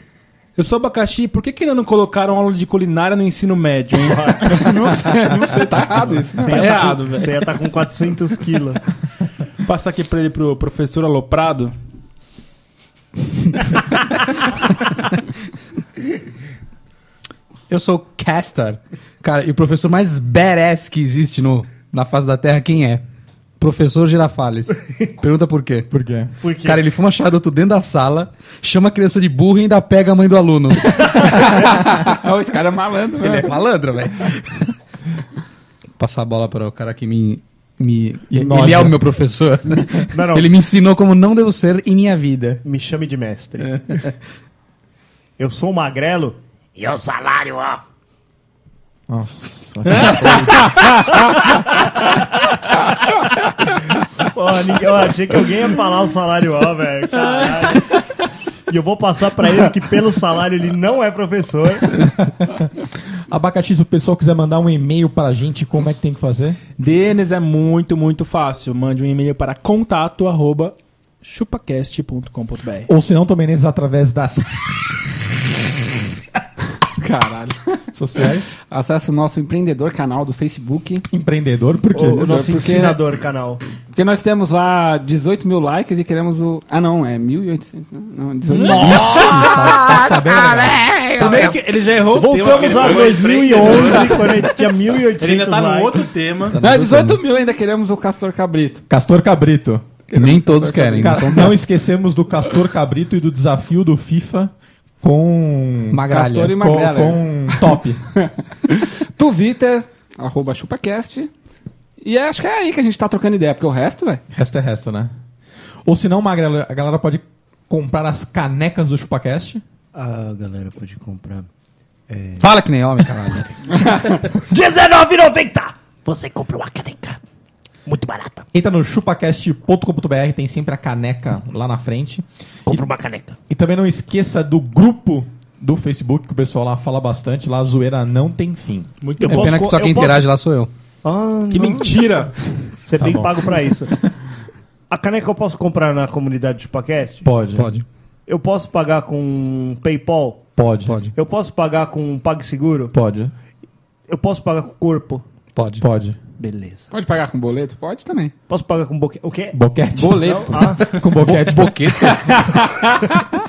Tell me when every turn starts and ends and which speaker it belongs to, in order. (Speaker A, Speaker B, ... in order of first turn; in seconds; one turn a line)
Speaker A: 0.6-4.5
Speaker B: 4.0-4.6
Speaker C: 4.5-6.7
Speaker B: 6.4-8.8
Speaker A: 6.5-7.5
Speaker A: 9.6-11.8
Speaker D: 17.7-23.0
Speaker D: 23.6-25.9
Speaker E: 25.9-26.3
Speaker B: 26.4-26.9
Speaker D: 26.6-31.8
Speaker C: 31.1-33.5
Speaker D: 33.2-34.7
Speaker D: 36.0-42.6
Speaker E: 38.3-39.0
Speaker B: 40.1-40.5
Speaker B: 42.6-43.8
Speaker D: 43.7-44.1
Speaker B: 45.4-47.8
Speaker E: 49.1-50.8
Speaker B: 51.2-52.3
Speaker B: 54.2-62.1
Speaker E: 62.0-66.6
Speaker A: 66.8-72.9
Speaker E: 72.9-75.0
Speaker C: 76.9-81.1
Speaker E: 78.0-78.5
Speaker E: 81.1-82.4
Speaker B: 81.9-83.6
Speaker C: 82.2-83.0
Speaker C: 83.9-91.2
Speaker A: 88.5-89.4
Speaker E: 88.7-91.0
Speaker D: 89.9-91.6
Speaker A: 91.2-94.3
Speaker B: 92.1-96.0
Speaker C: 93.8-94.5
Speaker A: 95.2-96.6
Speaker E: 96.5-97.2
Speaker C: 96.6-98.8
Speaker E: 98.9-99.8
Speaker C: 100.1-101.5
Speaker D: 100.1-101.6
Speaker E: 101.0-108.0
Speaker D: 105.9-106.6
Speaker C: 106.0-111.3
Speaker C: 112.0-114.2
Speaker E: 114.3-115.1
Speaker E: 115.9-119.6
Speaker B: 119.9-121.5
Speaker B: 122.1-122.5
Speaker D: 122.4-123.5
Speaker C: 123.7-124.2
Speaker B: 124.1-127.2
Speaker B: 127.9-128.5
Speaker E: 128.5-132.8
Speaker B: 132.7-133.4
Speaker E: 133.5-138.9
Speaker A: 139.0-139.6
Speaker B: 139.2-140.3
Speaker D: 139.3-140.7
Speaker B: 141.0-142.1
Speaker A: 141.5-142.3
Speaker B: 142.8-144.0
Speaker E: 143.0-143.4
Speaker B: 144.9-147.3
Speaker E: 147.2-147.8
Speaker D: 147.6-147.8
Speaker B: 148.3-150.5
Speaker E: 150.6-151.0
Speaker D: 150.9-151.1
Speaker B: 151.1-152.9
Speaker E: 152.9-153.3
Speaker B: 154.1-155.2
Speaker D: 155.6-155.8
Speaker E: 155.8-156.2
Speaker B: 156.4-156.9
Speaker C: 156.9-158.3
Speaker B: 158.5-159.6
Speaker E: 159.5-161.9
Speaker C: 159.9-161.1
Speaker B: 160.2-161.0
Speaker D: 161.2-162.4
Speaker C: 161.8-163.3